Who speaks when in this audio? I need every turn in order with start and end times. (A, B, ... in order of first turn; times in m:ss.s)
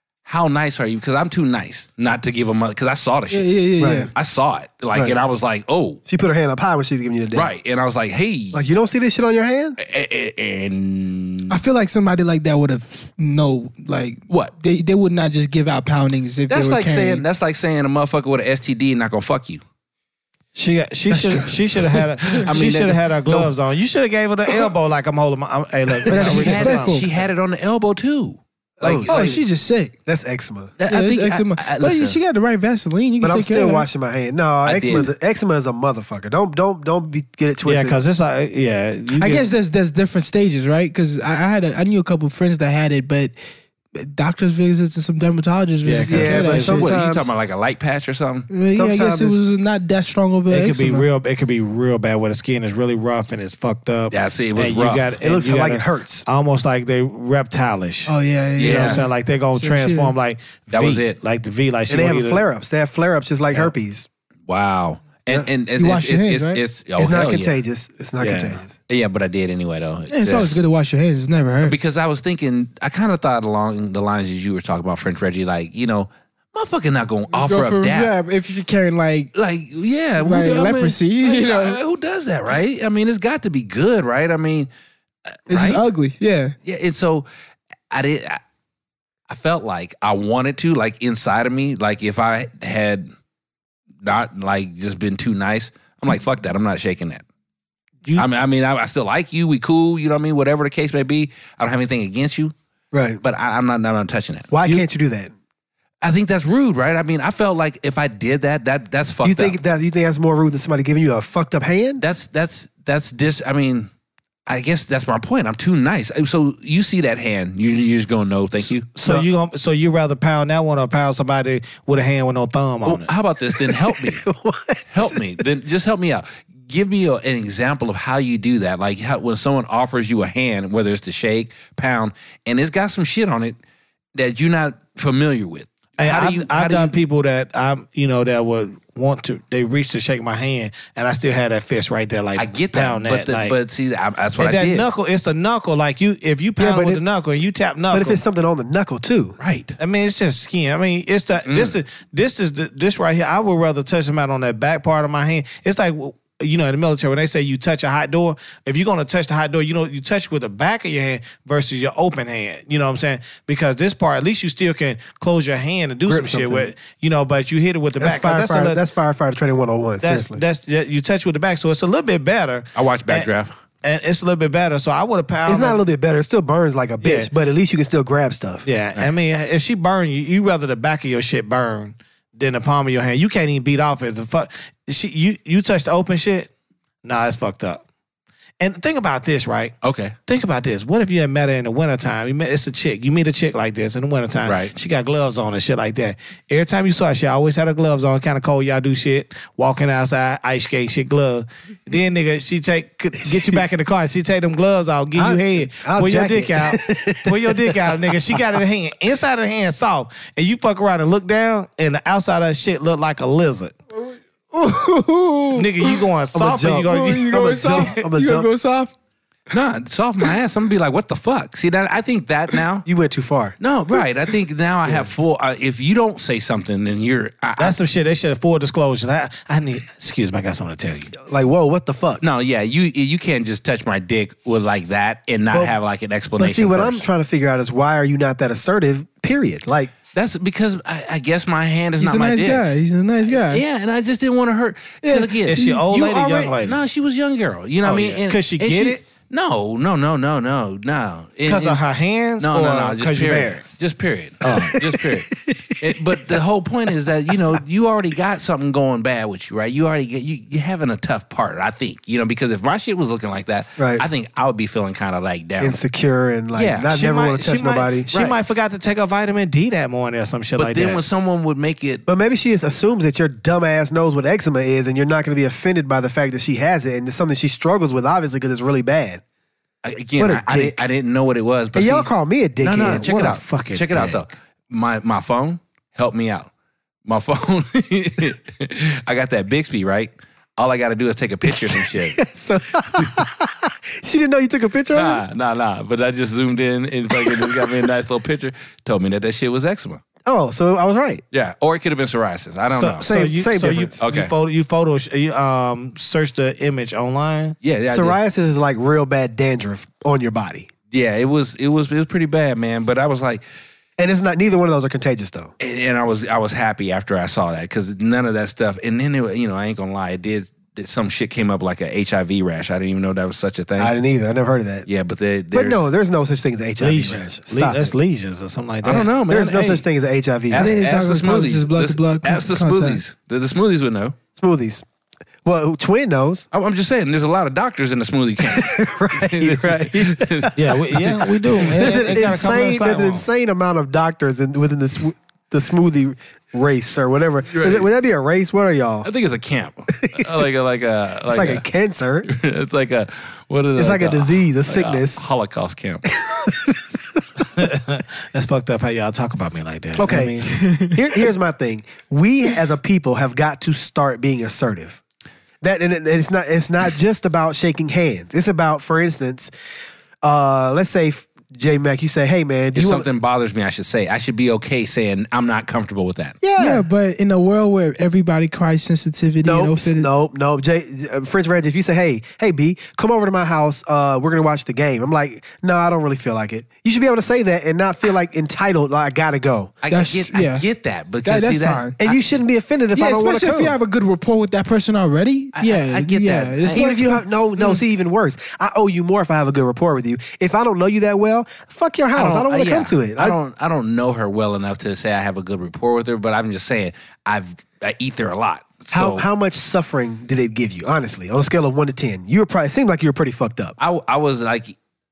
0:00.3-0:03.5 A
0:03.3-0:04.1 B
0:03.8-0:04.1 C
0:04.2-0:06.0 A
0:06.1-0:07.5 C
0:07.3-0:08.6 A
0:08.5-0:09.8 C
0:09.8-0:11.6 A
0:11.5-0:17.2 B
0:14.3-0:14.5 A
0:16.5-0:19.6 A
0:20.5-0:27.0 D
0:22.4-0:23.5 A
0:26.1-0:27.1 B
0:26.2-0:29.4 A
0:28.8-0:29.4 C
0:29.1-0:30.0 B
0:30.1-0:30.7 C
0:30.8-0:32.2 A
0:30.9-0:33.9 B
0:33.2-0:38.0 C
0:34.6-0:35.1 A
0:37.6-0:39.5 D
0:39.1-0:43.4 B
0:44.0-0:46.9 B
0:45.8-0:46.9 D
0:46.0-0:47.3 C
0:46.5-0:48.5 A
0:48.5-0:51.1 B
0:48.7-0:49.4 C
0:50.5-1:02.4 D
0:54.1-0:55.1 A
0:55.2-0:56.3 C
0:58.1-1:00.2 B
0:58.6-0:59.0 A
1:00.7-1:01.2 A
1:01.9-1:04.1 C
1:04.5-1:07.6 A
1:05.8-1:06.6 B
1:07.0-1:08.8 C
1:08.2-1:08.6 D
1:08.9-1:10.6 A
1:10.1-1:11.8 B
1:11.6-1:18.1 A
1:17.3-1:19.3 B
1:19.3-1:24.7 A
1:20.2-1:21.8 B
1:25.3-1:25.8 A
1:25.5-1:26.6 B
1:26.6-1:27.3 A
1:27.9-1:28.4 A
1:29.3-1:33.1 A
1:34.0-1:37.2 A
1:38.2-1:42.5 A
1:42.9-1:43.2 C
1:43.2-1:44.5 A
1:44.5-1:45.3 C
1:46.0-1:49.6 A
1:49.2-1:52.0 C
1:52.0-1:53.9 A
1:54.5-1:58.9 A
1:59.0-2:03.1 D
2:02.8-2:04.2 A
2:03.7-2:05.2 C
2:04.9-2:13.6 A
2:14.2-2:17.0 A
2:16.0-2:23.6 D
2:22.4-2:24.9 A
2:24.4-2:28.2 D
2:26.6-2:27.0 C
2:27.9-2:29.4 C
2:29.4-2:29.8 A
2:29.8-2:48.8 D
2:31.4-2:31.8 A
2:46.1-2:46.7 C
2:48.0-2:50.4 C
2:50.0-2:53.3 D
2:52.8-2:53.6 A
2:53.8-2:55.8 D
2:55.5-2:58.7 C
2:57.0-2:57.3 D
2:58.6-3:06.5 D
3:07.0-3:07.8 D
3:08.6-3:09.7 D
3:09.8-3:10.2 A
3:10.3-3:33.8 D
3:14.4-3:14.7 A
3:23.2-3:23.6 C
3:25.2-3:28.4 C
3:34.1-3:36.0 B
3:35.6-3:38.0 D
3:36.3-3:38.5 C
3:36.9-3:38.9 B
3:39.5-3:42.9 A
3:42.8-3:43.6 C
3:43.6-3:47.8 A
3:47.6-3:51.1 D
3:51.3-3:52.2 C
3:52.2-3:57.0 A
3:56.4-3:59.9 C
4:00.1-4:02.6 A
4:02.0-4:03.6 B
4:03.3-4:11.8 A
4:05.0-4:06.3 B
4:05.5-4:06.8 D
4:07.8-4:09.0 D
4:11.5-4:13.6 D
4:12.4-4:25.8 A
4:14.4-4:14.9 D
4:14.5-4:14.8 C
4:23.8-4:24.0 C
4:25.6-4:28.1 C
4:26.6-4:27.0 A
4:26.9-4:31.0 D
4:28.1-4:28.4 A
4:30.6-4:32.0 A
4:32.1-4:39.2 C
4:39.8-4:46.5 A
4:40.2-4:40.8 C
4:41.8-4:43.3 C
4:42.7-4:44.2 D
4:47.1-4:52.2 A
4:52.2-4:55.2 C
4:54.9-5:00.0 A
4:57.2-4:57.7 C
5:00.2-5:01.2 C
5:01.3-5:03.1 A
5:02.7-5:07.6 D
5:03.0-5:04.0 C
5:04.0-5:04.3 A
5:07.6-5:08.2 A
5:07.9-5:10.7 C
5:10.9-5:13.4 A
5:14.0-5:15.5 C
5:15.6-5:24.0 A
5:23.8-5:24.9 C
5:24.9-5:25.9 A
5:25.5-5:27.9 C
5:26.8-5:29.1 D
5:28.8-5:29.8 A
5:29.3-5:30.7 C
5:30.5-5:34.2 A
5:30.6-5:33.0 B
5:34.4-5:34.8 C
5:35.4-5:36.5 C
5:36.5-5:40.5 A
5:38.4-5:40.6 C
5:40.6-5:43.3 D
5:41.0-5:42.1 A
5:41.7-5:49.1 C
5:47.5-5:47.9 A
5:49.0-5:51.6 A
5:51.3-5:52.3 C
5:52.3-5:56.0 A
5:53.8-5:55.2 C
5:56.2-5:56.8 C
5:57.5-6:00.5 D
6:00.0-6:05.0 C
6:00.6-6:00.9 B
6:05.6-6:09.5 C
6:10.2-6:13.1 C
6:12.7-6:16.4 A
6:16.4-6:16.9 C
6:16.6-6:20.1 B
6:19.4-6:29.7 C
6:29.8-6:32.2 A
6:29.9-6:30.6 B
6:31.2-6:32.0 B
6:32.0-6:33.8 C
6:32.9-6:37.8 B
6:35.6-6:36.8 A
6:36.7-6:43.4 C
6:42.2-6:49.2 A
6:48.9-6:53.8 C
6:53.8-6:54.8 A